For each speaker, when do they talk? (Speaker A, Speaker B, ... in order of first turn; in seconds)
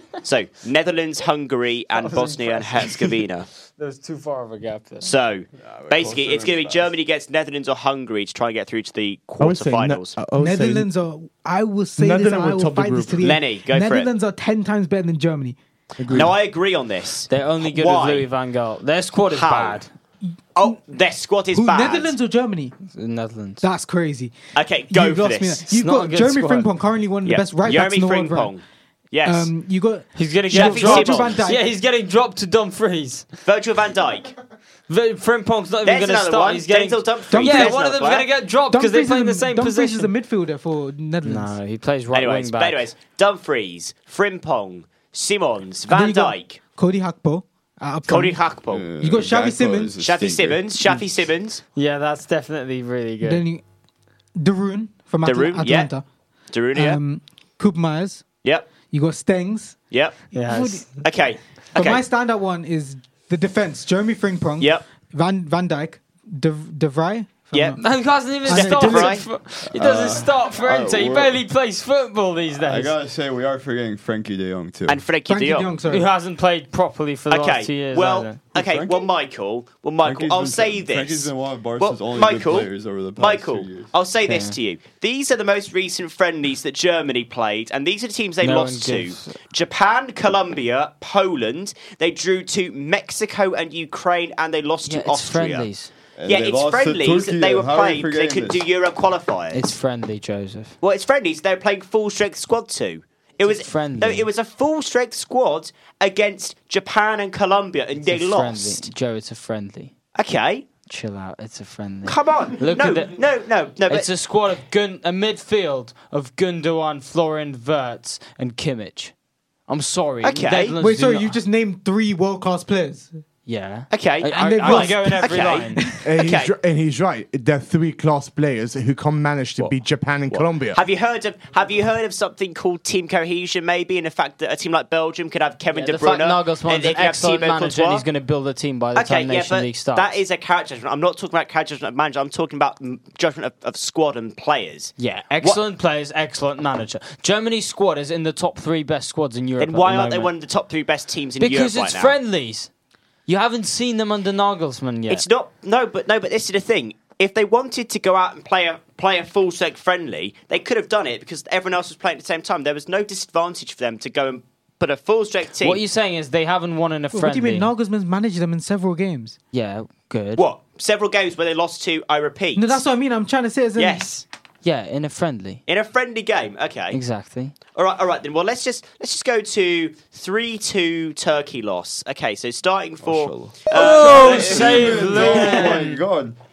Speaker A: 0.2-3.5, 5.0-10.2, 13.2-14.1, 16.1-18.3, 19.3-19.8, 20.6-22.1, 24.5-25.6, 27.2-29.5, 30.5-31.4, 33.4-34.3, 35.8-38.3, 42.1-46.6, 48.1-48.8, 50.0-51.6, 55.2-55.9, 56.5-57.0, 59.9-60.2, 61.0-62.0, 64.6-64.8, 67.5-67.8, 68.4-69.3, 74.9-75.7, 77.3-95.7, 96.2-99.7, 100.8-108.9, 110.2-110.7, 112.0-114.1, 120.2-120.8, 123.9-126.5, 130.3-138.0, 138.9-145.6, 149.6-152.1, 155.1-165.8, 170.4-172.8, 173.8-174.2, 175.7-177.0, 177.7-185.8
Speaker B: 1.9-5.1, 17.3-19.9, 22.9-23.6, 25.7-26.7, 30.1-33.4, 34.9-40.1, 41.2-42.8, 51.8-53.4, 60.3-61.0, 67.8-72.9, 75.9-78.4, 84.2-84.5, 88.4-89.4, 94.8-95.9, 99.5-100.7, 103.4-104.3, 108.0-109.9, 110.9-113.2, 113.9-119.1, 119.7-121.3, 123.5-125.8, 135.7-140.1, 145.0-150.3, 151.4-152.7, 153.3-155.2, 165.6-167.7, 169.5-170.4, 174.6-175.6, 176.9-177.6, 183.7-186.0
Speaker C: 5.6-6.9, 48.7-50.6, 69.7-71.4, 72.5-75.0, 78.5-79.0, 80.0-83.9, 96.2-98.6, 183.0-186.4
Speaker D: 9.4-10.9, 12.0-13.3, 16.0-16.3, 126.0-130.8
Speaker E: 10.4-15.6, 21.5-22.7, 23.6-24.3, 24.9-28.5, 29.2-31.6, 37.3-37.8, 38.7-41.5, 45.9-48.4, 49.0-49.9, 53.2-53.6, 54.4-56.0, 56.7-58.2, 58.9-59.8, 60.5-60.8, 61.7-67.8, 68.4-69.2, 75.3-76.1, 120.8-123.1, 124.3-126.0, 167.1-169.4, 172.6-174.1